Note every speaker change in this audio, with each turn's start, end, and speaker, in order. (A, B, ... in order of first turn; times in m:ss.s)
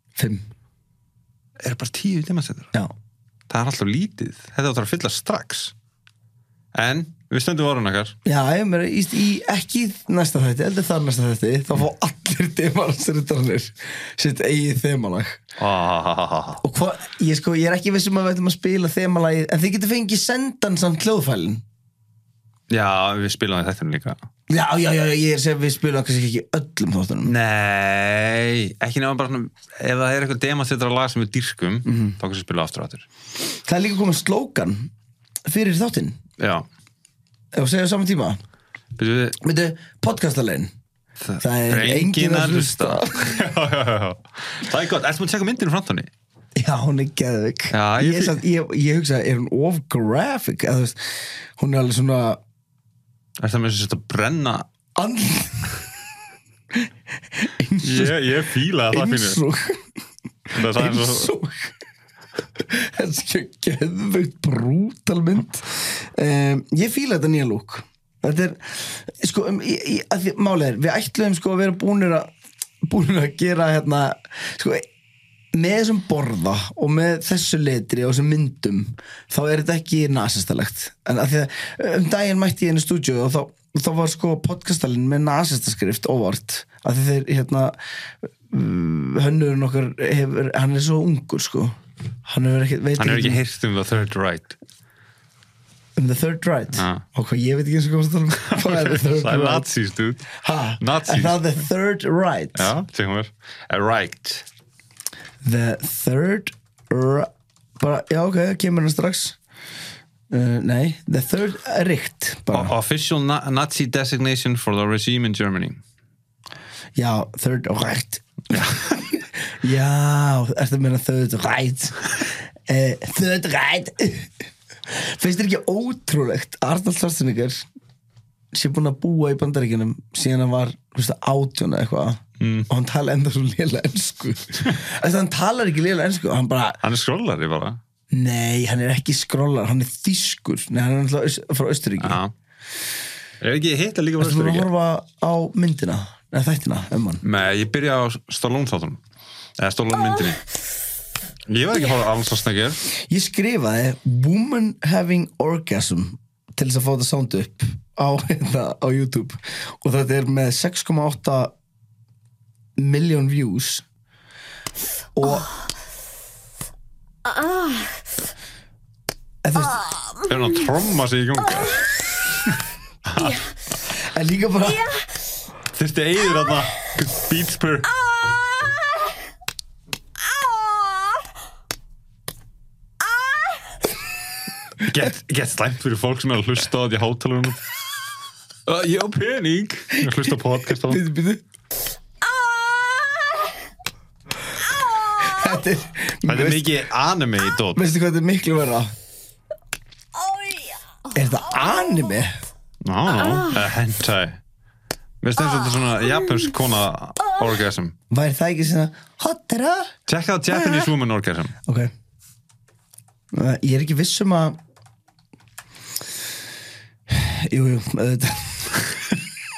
0:00.2-0:00.4 A
0:01.6-0:02.7 B
0:03.5-0:05.7 B
0:06.7-0:08.2 B
0:08.2-0:15.4 A
0:15.6-0:16.6 B
0:16.6-0:21.6 A
0:22.7-0:24.2 B
0:24.5-0:27.3 A
0:27.2-0:33.1 B
0:31.9-0:32.2 A
0:33.7-0:34.9 A
0:35.5-0:36.2 A
0:36.4-0:36.7 B
0:37.5-0:38.4 A
0:39.0-0:39.4 B
0:39.4-0:40.7 A
0:41.2-0:46.1 B
0:41.4-0:43.4 A
0:46.6-0:52.4 A
0:47.7-0:48.4 B
0:53.4-0:54.7 B
0:55.0-0:55.8 A
0:56.7-0:58.2 A
0:57.8-0:59.4 B
0:58.9-0:59.9 A
1:00.5-1:01.7 A
1:00.6-1:01.3 B
1:02.6-1:12.3 A
1:12.8-1:14.8 A
1:15.5-1:31.7 A
1:32.3-1:33.4 A
1:33.0-1:34.6 B
1:36.0-1:39.7 A
1:36.8-1:37.0 B
1:38.5-1:41.5 B
1:40.4-1:42.7 A
1:42.6-1:44.5 B
1:45.4-1:49.4 A
1:50.3-1:52.7 A
1:52.5-1:55.8 B
1:57.0-2:04.3 A
1:58.5-1:59.0 B
2:04.9-2:07.7 A
2:08.5-2:16.8 A
2:12.4-2:12.7 B
2:16.8-2:17.8 B
2:18.1-2:22.2 A
2:22.0-2:22.3 B
2:23.4-2:24.7 B
2:24.2-2:27.2 A
2:27.2-2:29.0 B
2:29.6-2:30.4 B
2:31.5-2:32.8 B
2:33.1-2:41.5 A
2:42.8-2:43.8 A
2:45.2-2:45.5 A
2:49.4-2:49.8 A
2:50.3-2:53.5 B
2:53.9-2:55.0 A
2:55.7-2:58.0 B
3:04.8-3:07.6 B
3:08.7-3:11.0 B
3:10.0-3:10.2 A
3:10.8-3:11.4 A
3:15.0-3:16.8 A
3:16.3-3:17.8 B
3:17.8-3:18.9 A
3:21.1-3:22.4 A
3:22.8-3:24.4 B
3:25.2-3:28.0 B
3:28.1-3:29.9 A
3:30.1-3:31.6 B
3:31.7-3:31.9 A
3:33.3-3:34.6 A
3:37.1-3:38.9 A